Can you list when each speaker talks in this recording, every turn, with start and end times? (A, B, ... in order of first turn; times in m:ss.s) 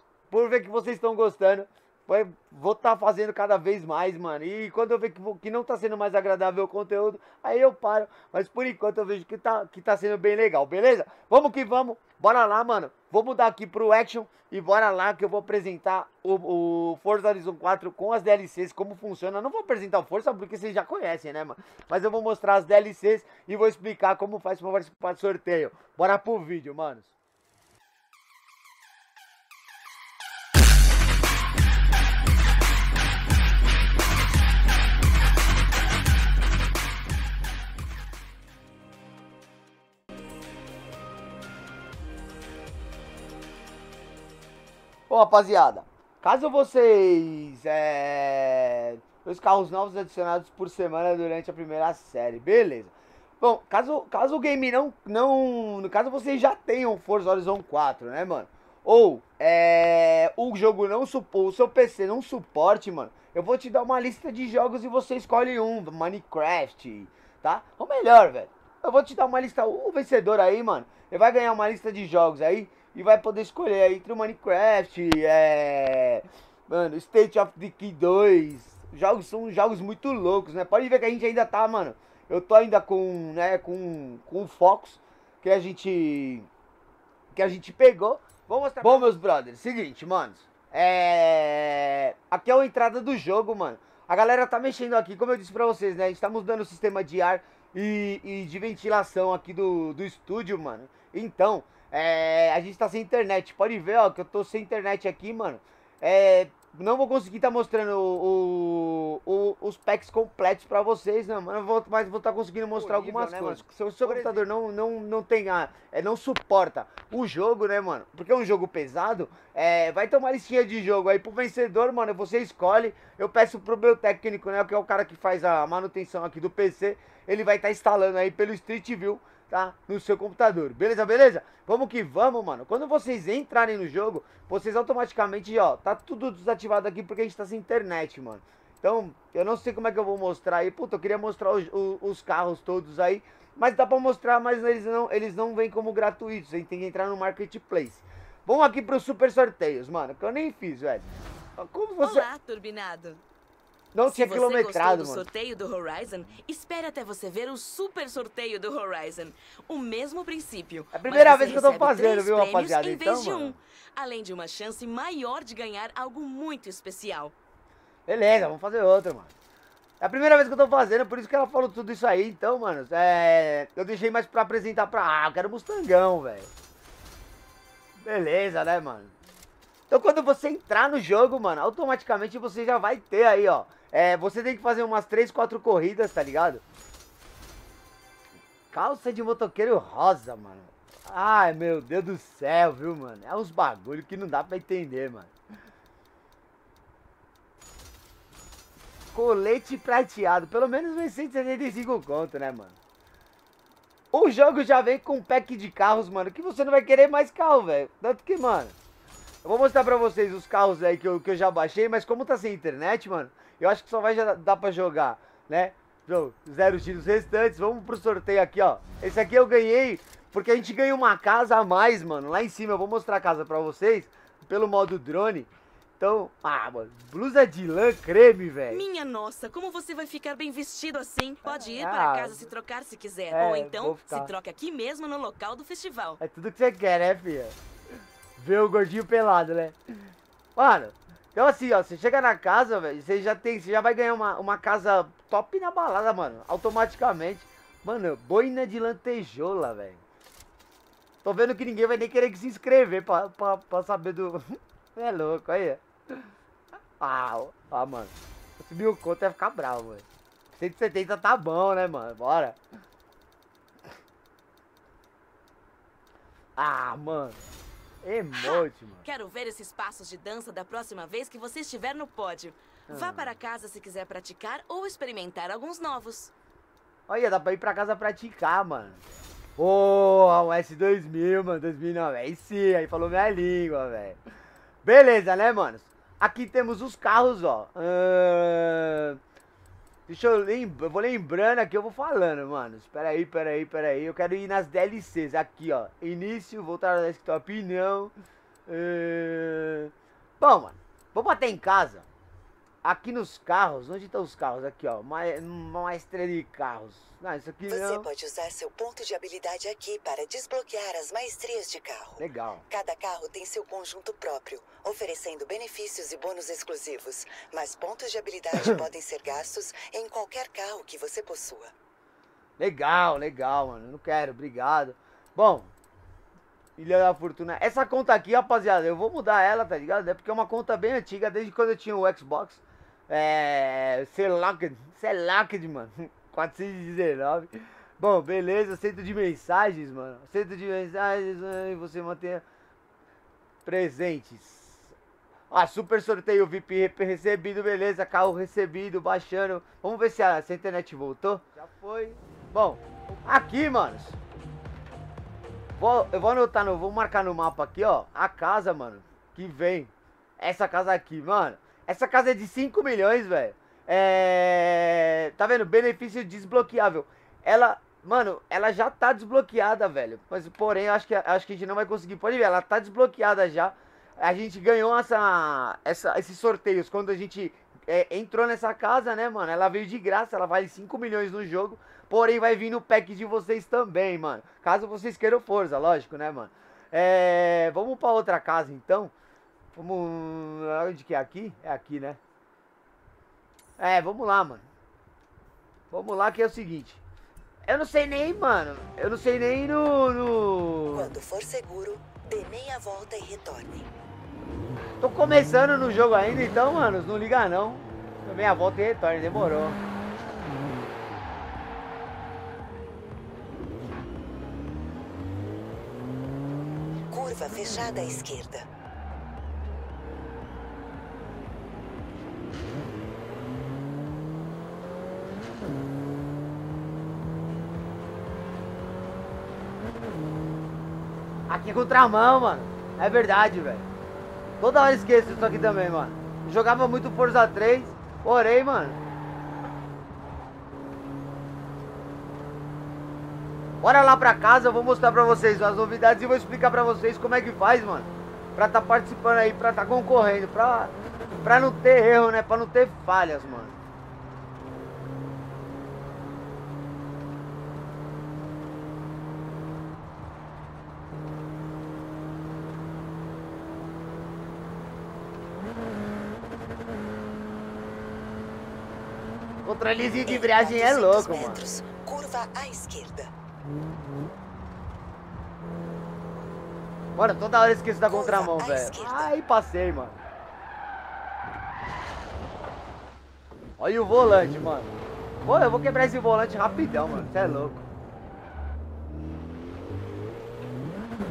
0:00.3-0:27.1 A
0:45.1-1:26.5 A
1:27.3-2:32.3 A
1:28.8-1:29.1 B
1:53.0-1:53.4 B
1:54.0-1:54.3 B
2:32.0-2:33.2 B
2:33.9-2:35.2 A
2:34.0-2:47.3 B
2:40.9-2:43.5 A
2:48.1-2:49.3 A
2:50.0-2:56.5 A
2:58.0-2:59.1 A
2:59.9-3:06.6 A
3:08.7-3:15.3 A
3:19.1-3:22.7 A
3:24.1-3:28.7 A
3:29.4-3:45.5 A
3:46.0-3:48.8 A
3:48.7-3:56.2 B
3:51.4-3:52.4 A
3:53.3-3:54.3 A
3:56.2-3:57.5 A
3:58.4-3:59.8 A
4:00.6-4:10.0 A
4:11.2-4:15.8 A
4:17.0-4:22.6 A
4:26.6-4:27.4 A
4:28.0-4:29.0 A
4:28.4-4:36.3 B
4:32.9-4:33.3 A
4:37.1-4:39.0 A
4:39.6-4:44.2 A
4:44.8-4:49.2 A
4:50.1-4:58.1 A
4:58.6-5:02.0 A
5:02.8-5:08.1 A
5:07.7-5:21.7 C
5:12.2-5:12.6 A
5:22.6-5:25.7 A
5:26.8-5:42.4 A
5:43.6-5:44.9 A
5:45.5-5:54.2 A
5:55.8-6:29.1 A
6:29.7-6:32.2 A
6:33.8-6:34.6 A
6:35.9-6:37.0 A
6:37.6-6:41.1 A
6:40.9-6:43.9 C
6:45.0-6:49.8 A
6:57.1-6:58.6 C
7:11.5-7:13.8 A
7:14.6-7:19.0 A
7:23.8-7:33.8 A
7:49.6-7:51.6 A
7:50.2-7:53.3 C
7:57.1-8:00.2 A
7:58.0-7:59.3 C
8:03.8-8:07.8 A